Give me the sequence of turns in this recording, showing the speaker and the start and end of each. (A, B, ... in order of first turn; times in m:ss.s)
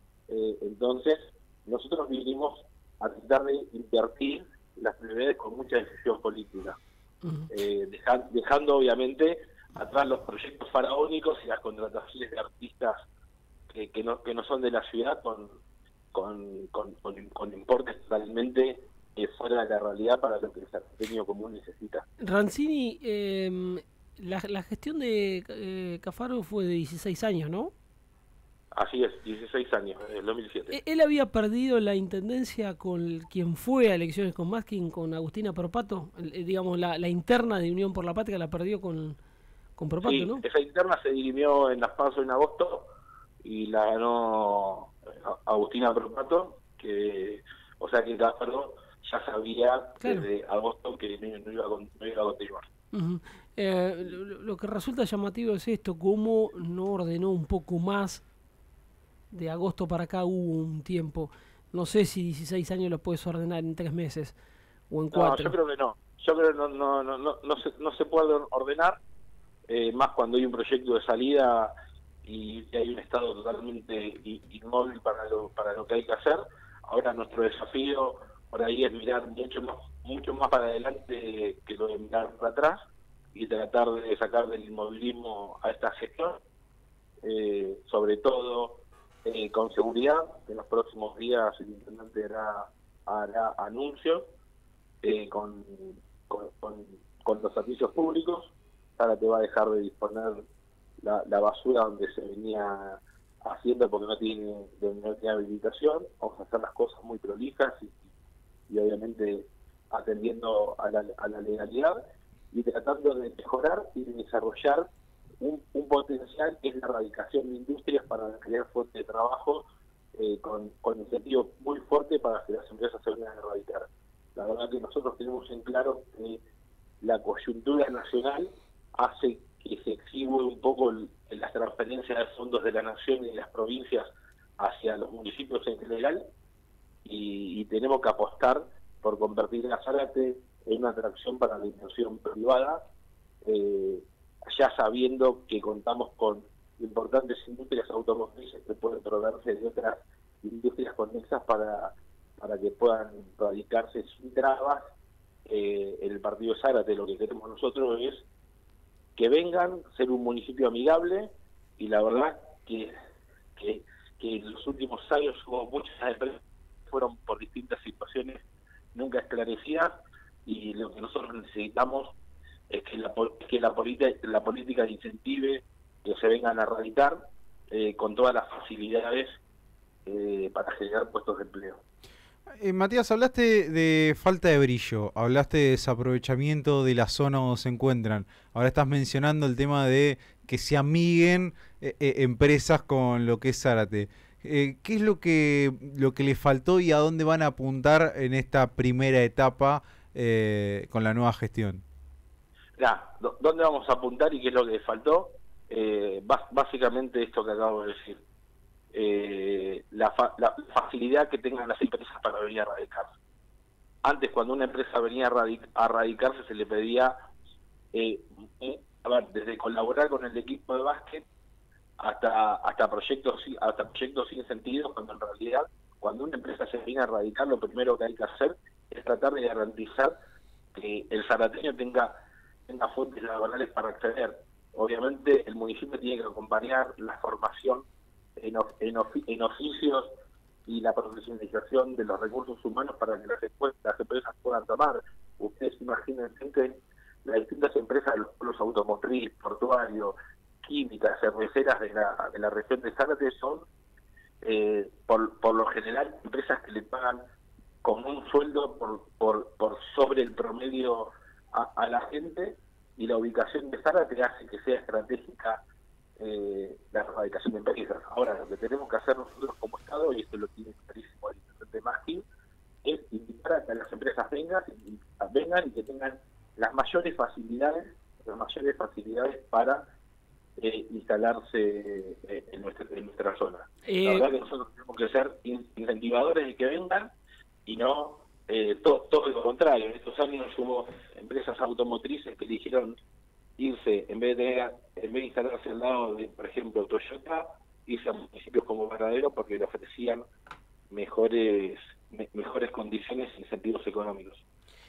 0:00.3-0:06.8 A
0:07.2-0:07.5 B
0:07.5-0:13.0 A
0:13.7-0:15.6 A
0:16.1-0:22.0 A
0:22.2-0:27.7 B
0:28.7-0:30.8 A
0:30.7-0:39.2 B
0:39.8-0:40.4 B
0:40.0-0:42.9 A
0:43.4-0:52.7 A
0:50.0-0:50.3 B
0:52.9-0:58.2 B
0:59.3-1:04.4 B
1:04.9-1:05.5 B
1:05.1-1:09.0 A
1:09.7-1:11.7 A
1:12.2-1:22.8 A
1:23.3-1:26.4 A
1:27.2-1:34.3 A
1:35.0-1:40.4 A
1:41.0-1:48.0 A
1:48.7-1:52.0 A
1:52.5-1:54.9 A
1:55.4-2:06.4 A
2:07.0-2:16.2 A
2:17.0-2:22.8 A
2:23.4-2:34.8 A
2:35.5-2:38.2 A
2:39.2-2:42.9 A
2:43.6-2:48.4 A
2:49.0-2:49.9 A
2:50.5-2:52.1 A
2:52.7-2:59.4 A
3:00.1-3:01.8 A
3:02.6-3:21.8 C
3:22.8-3:28.2 A
3:28.9-3:33.1 A
3:34.0-3:37.1 A
3:37.9-3:41.2 A
3:42.0-3:50.1 A
3:50.7-3:52.1 A
3:52.7-3:57.9 A
3:58.4-4:00.1 A
4:00.7-4:13.7 A
4:14.4-4:17.2 A
4:17.8-4:25.6 A
4:26.2-4:32.2 A
4:32.8-4:39.9 A
4:40.6-4:47.1 A
4:43.9-4:44.3 B
4:47.7-4:53.0 A
4:53.6-5:00.2 A
5:00.9-5:04.4 A